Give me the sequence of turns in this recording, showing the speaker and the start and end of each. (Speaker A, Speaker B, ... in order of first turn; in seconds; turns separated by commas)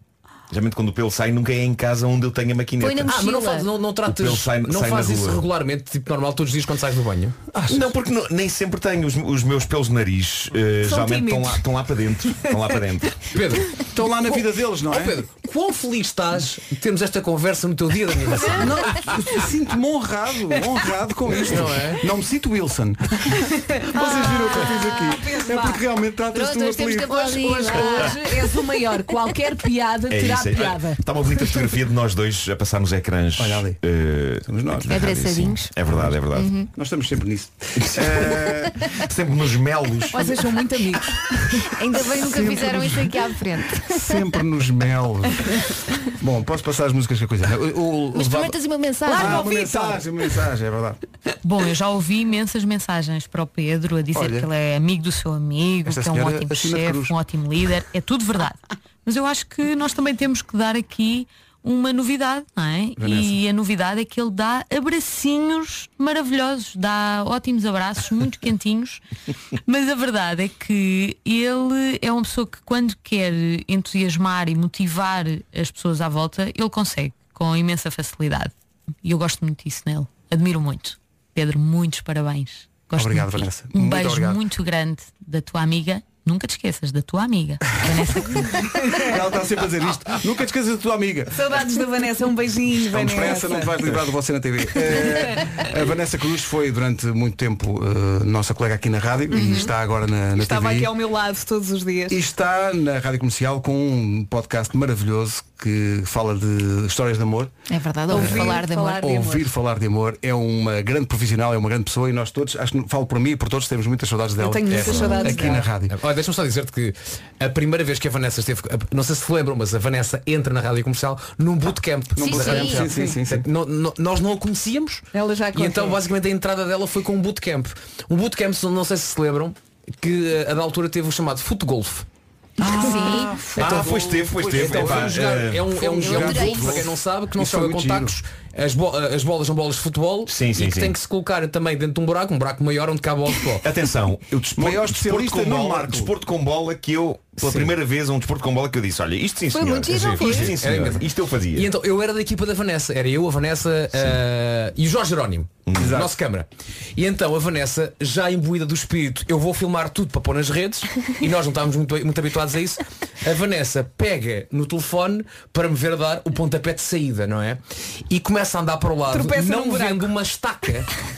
Speaker A: 0.5-3.2, Speaker B: 2.8-3.7, Speaker C: 3.0-7.3, Speaker A: 4.0-5.4, Speaker D: 7.5-7.9, Speaker A: 7.7-13.1, Speaker E: 10.8-11.6, Speaker C: 13.3-18.9, Speaker D: 13.9-15.2, Speaker D: 18.5-28.0, Speaker C: 21.5-22.0, Speaker E: 23.9-25.8, Speaker B: 24.1-25.1, Speaker B: 26.3-28.4, Speaker E: 27.2-31.0, Speaker A: 30.1-36.5, Speaker D: 33.4-33.8, Speaker D: 34.5-35.0, Speaker B: 34.9-35.7, Speaker B: 36.3-36.7, Speaker D: 36.7-38.7, Speaker A: 37.8-38.4, Speaker A: 39.0-40.2, Speaker E: 40.1-41.2, Speaker B: 41.6-44.2, Speaker D: 42.2-43.1, Speaker D: 43.9-45.5, Speaker D: 46.1-48.5, Speaker B: 48.1-49.5, Speaker E: 49.0-50.0, Speaker D: 49.1-51.0, Speaker F: 51.4-69.0, Speaker D: 54.1-54.5, Speaker D: 55.9-57.1, Speaker D: 63.0-63.4, Speaker F: 69.7-78.5, Speaker F: 79.0-88.4, Speaker D: 82.9-84.4, Speaker E: 88.8-89.2, Speaker D: 89.0-91.5, Speaker E: 91.3-93.8, Speaker D: 92.9-100.9, Speaker B: 99.3-99.7, Speaker E: 99.3-99.7, Speaker E: 100.3-102.2, Speaker D: 102.1-107.5, Speaker B: 107.7-109.0, Speaker E: 108.1-109.5, Speaker D: 108.1-115.9, Speaker E: 114.4-115.7, Speaker C: 115.2-132.1, Speaker D: 122.2-123.5, Speaker B: 122.2-122.8, Speaker E: 122.9-123.2, Speaker E: 125.1-126.0, Speaker D: 132.6-138.2, Speaker B: 132.7-133.4, Speaker C: 133.6-143.7, Speaker A: 133.6-135.7, Speaker B: 136.0-136.9, Speaker A: 140.3-140.9, Speaker A: 143.6-151.7, Speaker D: 144.6-146.1, Speaker C: 147.4-147.7, Speaker B: 149.5-150.8, Speaker C: 149.9-170.9, Speaker A: 155.7-155.9, Speaker D: 155.8-156.2, Speaker E: 169.1-170.1